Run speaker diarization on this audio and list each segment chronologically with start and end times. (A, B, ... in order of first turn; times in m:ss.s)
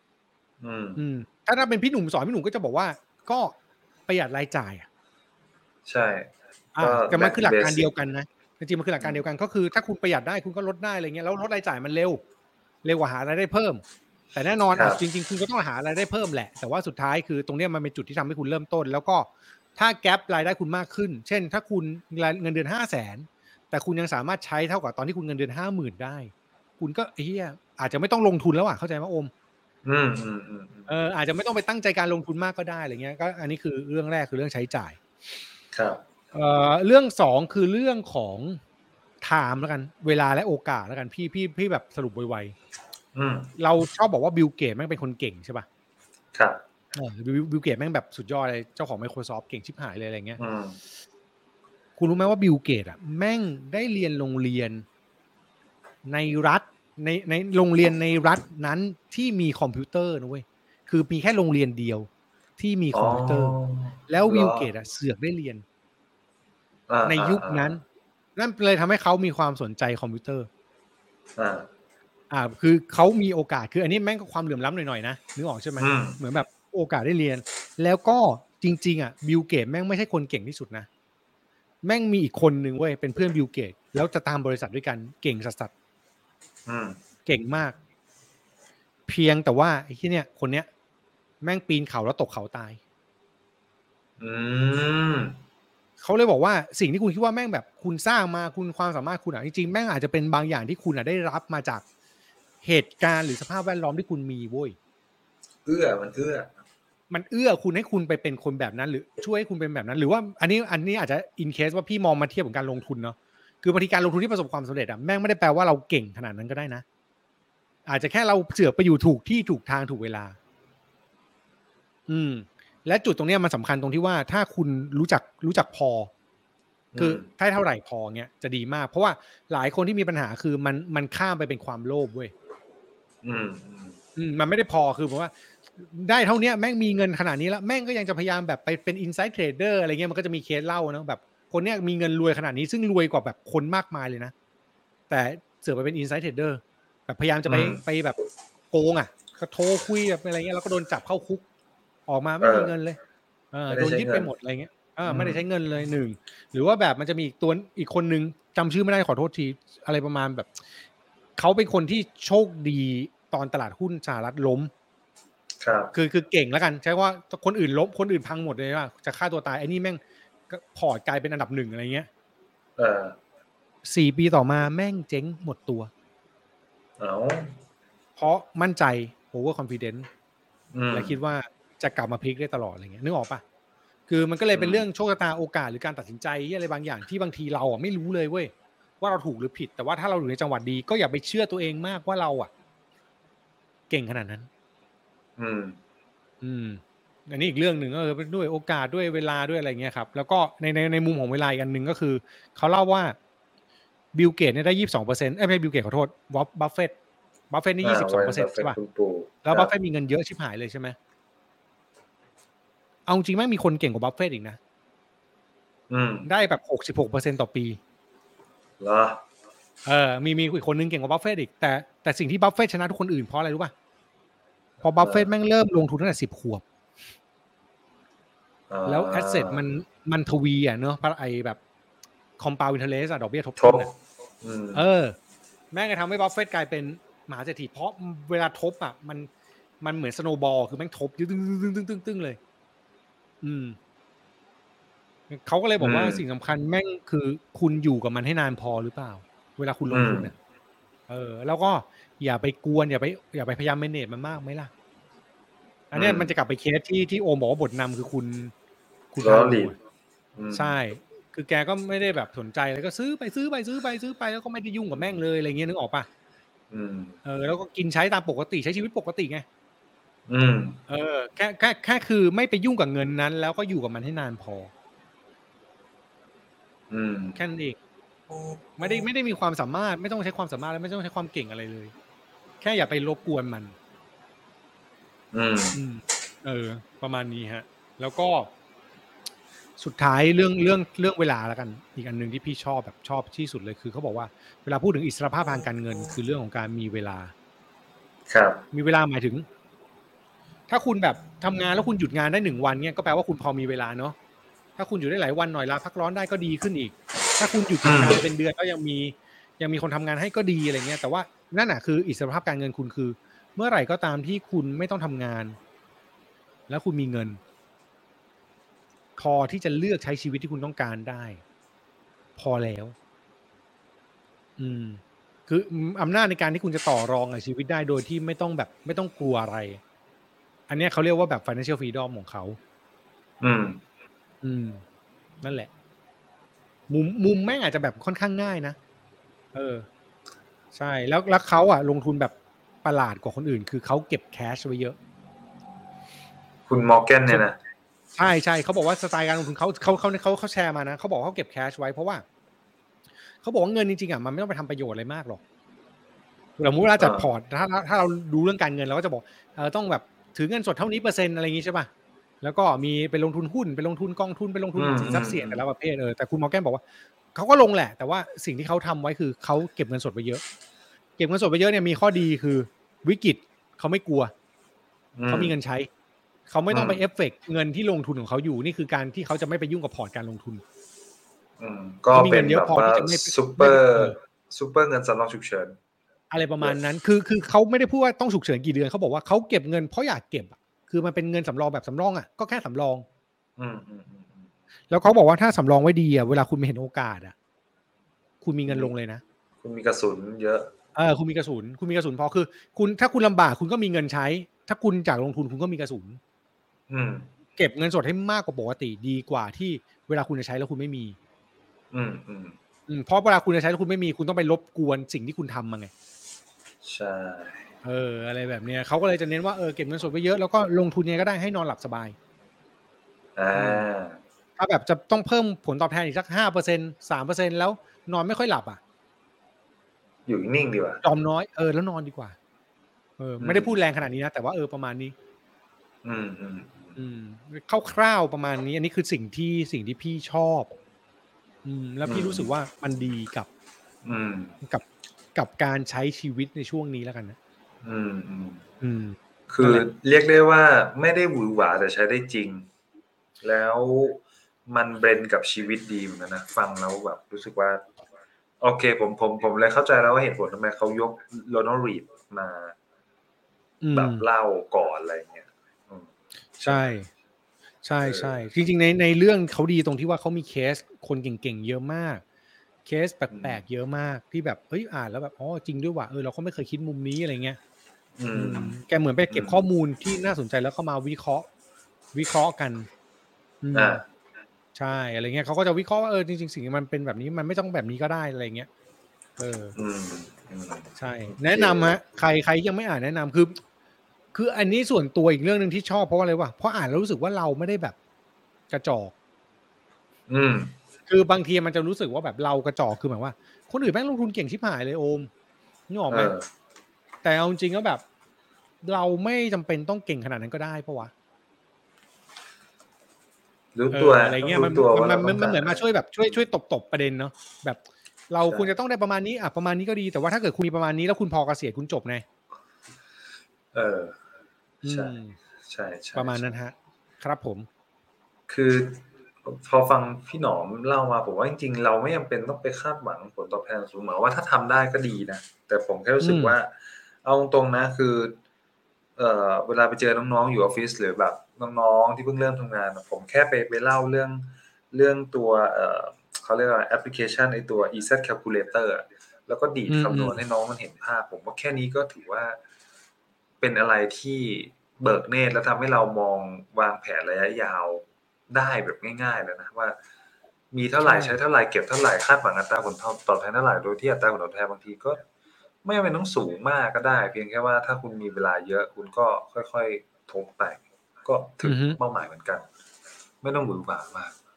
0:00.6-0:01.0 A
0:01.0-0:03.5 B
0:04.1-0:04.9 B
0:05.8-0:07.9 A
0:06.7-0:12.2 B
0:09.0-0:09.2 A
0:12.8-0:13.8 B
0:14.3-0:29.3 B
0:14.7-0:15.0 A
0:29.8-0:30.9 A
0:30.9-0:35.0 B
0:35.7-0:36.0 A
0:36.3-0:38.6 B
0:39.2-0:42.5 B
0:43.1-0:43.5 A
0:43.6-0:45.6 B
0:46.3-0:46.6 A
0:46.9-0:50.4 B
0:50.4-0:50.8 A
0:52.0-0:54.8 B
0:56.0-1:03.6 B
1:02.9-1:04.7 A
1:04.1-1:05.6 B
1:06.9-1:07.8 A
1:07.0-1:07.8 B
1:08.4-1:10.5 B
1:11.4-1:11.7 A
1:12.3-1:20.9 B
1:15.8-1:16.2 A
1:21.8-1:25.7 B
1:26.6-1:27.0 A
1:27.2-1:27.8 B
1:29.1-1:30.7 B
1:31.4-1:32.8 B
1:34.2-1:35.4 A
1:36.0-1:41.8 B
1:42.6-1:44.8 B
1:45.6-1:46.5 A
1:47.1-1:56.8 B
1:57.8-2:00.4 B
2:02.1-2:06.1 B
2:06.9-2:07.2 A
2:07.0-2:12.3 B
2:13.2-2:14.0 A
2:14.2-2:24.3 B
2:25.1-2:28.2 B
2:27.4-2:27.8 A
2:28.7-2:31.4 B
2:32.1-2:33.0 B
2:32.4-2:32.7 A
2:33.5-2:40.5 B
2:33.7-2:34.3 A
2:35.0-2:35.4 A
2:41.4-2:44.7 B
2:45.6-2:45.9 A
2:45.9-2:52.1 B
2:52.8-2:53.2 A
2:53.8-2:55.9 B
2:57.0-2:57.6 A
2:58.2-3:00.1 B
3:00.7-3:01.2 A
3:00.9-3:03.4 B
3:04.1-3:12.5 B
3:04.5-3:04.8 A
3:13.9-3:14.5 B
3:15.4-3:15.8 A
3:16.4-3:23.2 B
3:24.1-3:26.9 B
3:27.5-3:28.8 B
3:27.8-3:29.7 A
3:29.4-3:31.0 B
3:33.0-3:34.6 B
3:35.9-3:36.3 A
3:36.2-3:37.8 B
3:38.8-3:39.2 A
3:39.8-3:43.7 B
3:44.8-3:46.6 B
3:45.0-3:45.3 A
3:48.7-3:49.6 A
3:48.8-3:51.6 B
3:52.4-3:53.9 B
3:53.6-3:54.8 A
3:54.7-3:55.2 B
3:55.7-3:59.3 B
3:59.8-4:02.4 B
4:03.4-4:03.8 B
4:05.3-4:10.3 B
4:05.8-4:06.2 A
4:09.9-4:10.3 A
4:11.1-4:14.7 B
4:15.9-4:18.5 B
4:15.9-4:16.3 A
4:19.1-4:19.8 B
4:19.2-4:19.7 A
4:20.4-4:20.8 A
4:20.5-4:26.1 B
4:26.7-4:27.2 A
4:27.2-4:29.4 B
4:30.3-4:30.8 A
4:30.9-4:34.7 B
4:36.9-4:37.4 A
4:37.3-4:37.8 B
4:38.8-4:41.9 B
4:42.6-4:43.7 B
4:45.3-4:45.8 A
4:45.7-4:48.5 B
4:49.8-4:57.3 B
4:58.3-4:58.6 A
4:58.7-4:59.4 B
5:00.7-5:04.2 B
5:04.8-5:15.6 B
5:07.8-5:08.2 A
5:16.7-5:17.4 B
5:19.2-5:21.4 B
5:22.4-5:22.9 B
5:24.6-5:29.8 B
5:30.7-5:32.6 B
5:33.4-5:33.8 A
5:34.4-5:34.8 B
5:35.4-5:35.7 B
5:36.9-5:38.8 B
5:39.5-5:39.9 B
5:40.7-5:45.0 B
5:46.7-5:47.6 A
5:48.2-5:52.2 B
5:53.4-5:55.4 B
5:56.6-6:01.9 B
5:57.0-5:57.3 A
6:02.4-6:06.8 B
6:04.7-6:05.6 A
6:07.3-6:10.4 B
6:11.2-6:14.3 B
6:15.2-6:15.5 A
6:15.3-6:15.9 B
6:16.5-6:20.6 B
6:16.7-6:17.0 A
6:21.6-6:25.8 A
6:22.1-6:24.2 B
6:26.3-6:33.0 B
6:33.6-6:34.5 A
6:34.9-6:37.3 B
6:38.4-6:39.2 B
6:39.6-6:40.7 A
6:40.9-6:46.2 B
6:46.9-6:47.3 A
6:47.6-6:51.2 B
6:51.9-6:52.6 A
6:52.9-6:55.9 B
6:56.8-6:57.7 A
6:57.8-7:02.2 B
7:03.4-7:04.2 A
7:03.5-7:03.9 B
7:04.6-7:08.8 B
7:10.2-7:11.0 A
7:11.0-7:12.4 B
7:13.2-7:15.1 B
7:13.4-7:13.8 A
7:16.0-7:16.9 A
7:17.0-7:20.7 B
7:21.6-7:23.5 B
7:22.0-7:22.5 A
7:24.0-7:24.6 A
7:24.6-7:27.4 B
7:27.8-7:28.6 A
7:28.8-7:29.8 B
7:29.5-7:32.7 A
7:33.4-7:37.8 A
7:38.6-7:42.7 A
7:43.8-7:44.2 B
7:43.9-7:46.9 A
7:46.6-7:47.1 B
7:47.8-7:52.2 B
7:48.0-7:48.4 A
7:52.8-7:57.6 B
7:53.3-7:53.6 A
7:58.2-7:58.8 A
7:58.3-8:01.5 B
7:59.3-7:59.6 A
8:02.1-8:02.9 B
8:03.6-8:04.0 B
8:03.7-8:04.0 A
8:04.7-8:08.7 B
8:09.4-8:09.7 B
8:09.7-8:12.0 A
8:11.0-8:13.6 B
8:14.3-8:18.0 B
8:18.7-8:19.1 B
8:20.3-8:20.7 A
8:21.1-8:25.3 B
8:25.9-8:26.3 B
8:26.1-8:26.5 A
8:27.2-8:28.0 B
8:28.8-8:31.1 B
8:33.7-8:35.8 A
8:33.9-8:42.2 B
8:38.4-8:38.7 A
8:43.7-8:44.2 A
8:44.8-8:45.4 B
8:44.8-8:45.1 A
8:45.6-8:46.4 A
8:46.1-8:47.7 B
8:48.5-8:58.4 A
8:56.2-8:56.6 B
8:59.2-9:12.6 A
9:09.9-9:10.4 B
9:13.6-9:20.0 A
9:20.7-9:25.2 A
9:21.0-9:21.4 B
9:25.8-9:32.7 A
9:31.6-9:32.0 B
9:33.4-9:34.4 A